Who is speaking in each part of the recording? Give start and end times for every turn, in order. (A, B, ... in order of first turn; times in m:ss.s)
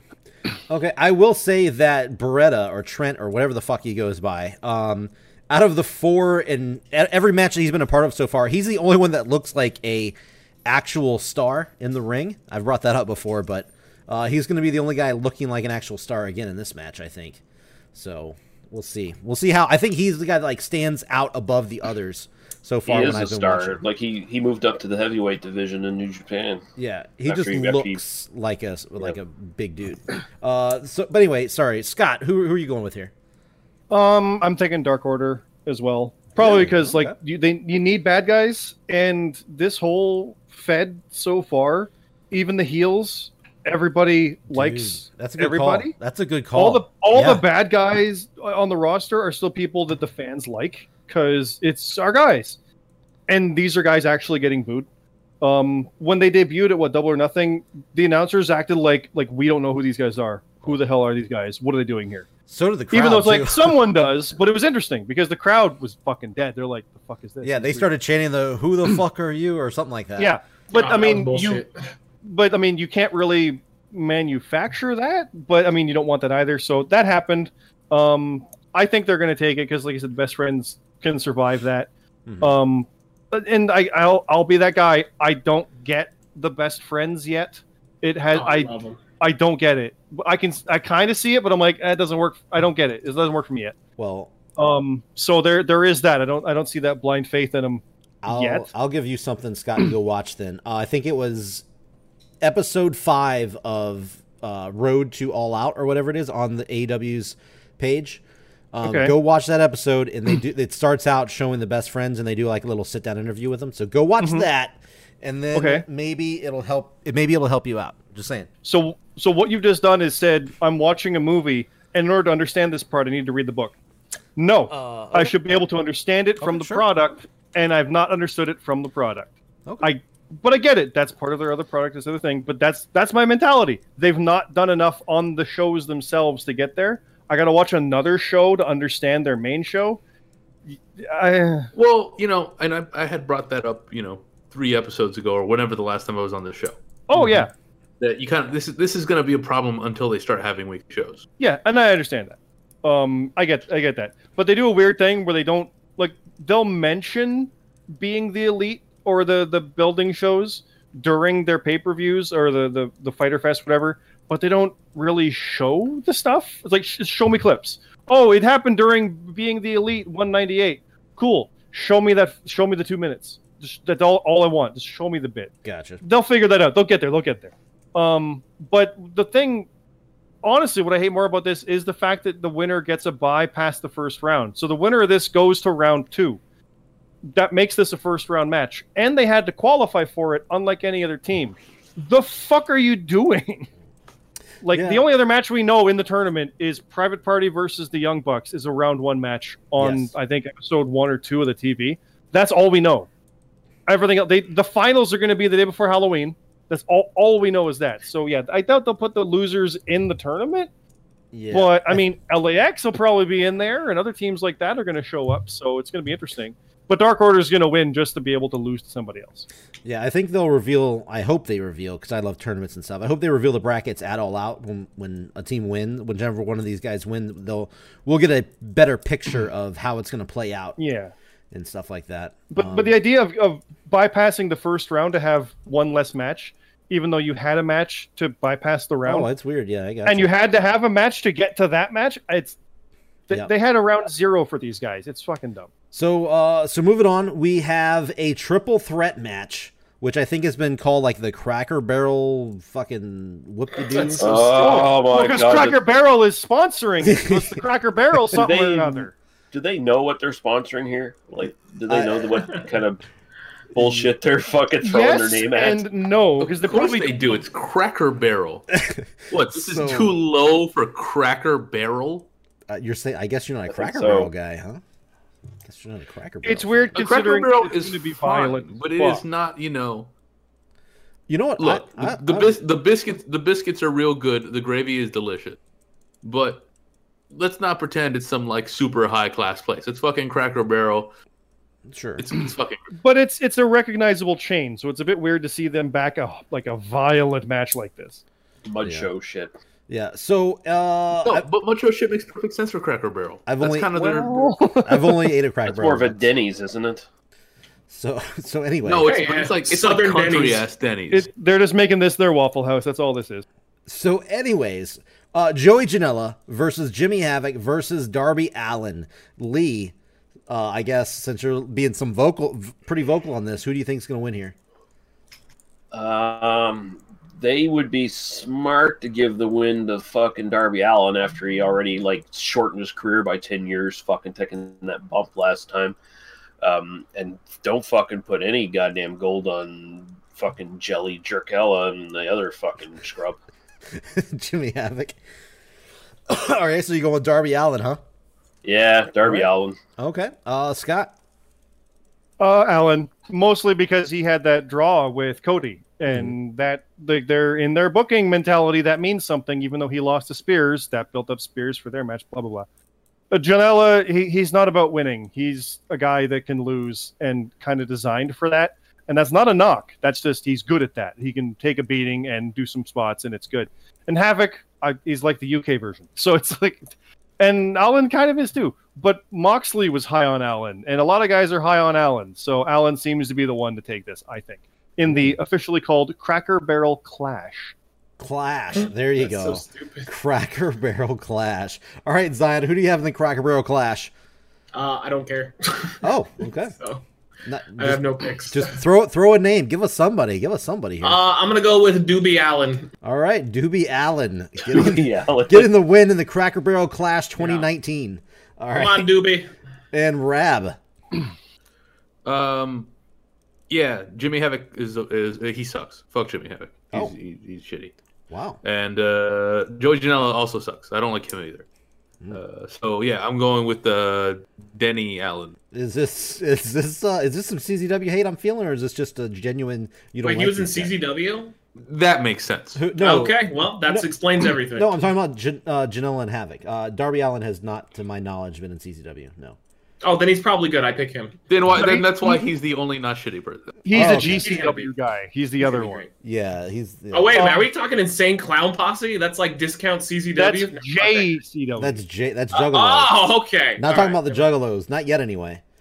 0:00.7-0:17.4 A
0:17.9-0:23.8 A
0:22.9-0:26.6 B
0:26.8-0:33.1 A
0:27.3-0:28.0 B
0:33.9-0:45.9 C
0:36.4-0:37.2 A
0:44.5-0:47.4 A
0:46.6-0:52.6 C
0:53.3-0:54.9 C
0:55.4-1:02.3 C
1:02.5-1:03.8 A
1:02.9-1:07.9 C
1:07.4-1:10.4 A
1:10.2-1:11.6 C
1:10.7-1:11.7 D
1:12.2-1:21.9 C
1:22.3-1:22.5 A
1:22.4-1:33.8 C
1:28.3-1:29.0 D
1:34.0-1:34.3 A
1:34.6-1:38.7 C
1:38.2-1:41.6 A
1:42.4-1:48.2 A
1:48.7-1:58.5 A
1:48.8-1:49.1 C
1:54.2-1:54.5 C
1:55.5-1:55.8 C
1:58.6-2:03.8 C
2:04.4-2:20.0 C
2:04.7-2:05.5 A
2:06.4-2:06.8 A
2:09.7-2:09.9 A
2:20.7-2:21.7 C
2:21.7-2:26.8 E
2:27.1-2:27.5 C
2:27.2-2:27.5 A
2:28.0-2:31.3 E
2:31.4-2:59.7 C
2:55.6-2:56.0 A
3:00.4-3:06.4 C
3:07.2-3:13.7 C
3:14.6-3:23.1 C
3:14.7-3:15.0 A
3:19.8-3:20.1 A
3:23.9-3:30.7 C
3:31.3-3:32.0 A
3:31.5-3:39.5 C
3:39.8-3:50.8 A
3:50.8-3:51.1 C
3:51.5-3:53.0 A
3:52.5-3:59.3 C
3:59.0-4:00.4 A
4:00.0-4:02.6 C
4:03.3-4:05.7 C
4:05.9-4:14.8 A
4:13.8-4:14.2 D
4:14.2-4:15.8 B
4:14.4-4:19.1 C
4:17.0-4:17.6 A
4:18.3-4:23.0 B
4:21.9-4:22.4 A
4:23.8-4:25.8 B
4:23.8-4:24.0 A
4:24.8-4:27.3 C
4:26.4-4:28.7 E
4:29.3-4:32.3 E
4:29.5-4:30.2 A
4:32.7-4:34.8 A
4:33.7-4:34.3 B
4:35.6-4:37.0 A
4:36.4-4:39.2 C
4:37.0-4:40.1 E
4:41.3-4:42.6 A
4:41.6-4:45.6 E
4:46.2-4:46.7 E
4:47.3-4:51.1 E
4:51.9-4:52.2 A
4:52.2-4:52.9 E
4:53.0-4:58.2 C
4:58.6-4:59.5 B
4:59.9-5:01.5 A
5:01.2-5:04.6 E
5:03.5-5:03.9 A
5:04.0-5:05.3 C
5:04.8-5:06.2 A
5:05.7-5:07.0 B
5:07.9-5:09.1 A
5:08.8-5:11.3 E
5:09.0-5:10.6 D
5:11.1-5:13.4 C
5:13.9-5:19.9 A
5:20.5-5:24.6 A
5:25.9-5:36.0 B
5:36.6-5:43.4 B
5:43.9-5:45.2 A
5:46.3-5:48.0 A
5:48.6-5:49.8 B
5:50.0-5:51.1 A
5:52.4-6:02.7 C
5:56.1-5:56.3 A
6:03.3-6:27.7 C
6:25.1-6:25.4 A
6:28.2-6:34.1 A
6:28.8-6:30.1 D
6:34.7-6:36.0 D
6:36.0-6:36.7 A
6:36.8-6:37.0 D
6:37.4-6:41.2 A
6:37.8-6:38.8 D
6:41.0-6:42.9 D
6:43.0-6:49.1 A
6:44.6-6:45.7 B
6:47.4-6:47.7 D
6:48.7-6:49.5 D
6:49.9-6:50.8 A
6:52.2-6:52.9 E
6:53.7-6:57.9 E
6:58.3-6:58.6 A
6:58.6-7:01.7 E
7:02.3-7:05.6 E
7:05.7-7:10.9 A
7:10.2-7:11.5 D
7:11.8-7:12.8 E
7:12.8-7:14.1 A
7:13.0-7:14.9 D
7:14.7-7:19.6 A
7:20.0-7:21.4 D
7:21.5-7:23.8 E
7:21.8-7:22.4 C
7:23.8-7:26.0 C
7:23.9-7:24.6 A
7:23.9-7:24.9 D
7:25.6-7:26.1 D
7:26.2-7:27.5 A
7:27.1-7:31.3 D
7:27.4-7:27.6 C
7:30.4-7:32.0 C
7:31.8-7:35.6 A
7:32.5-7:34.4 D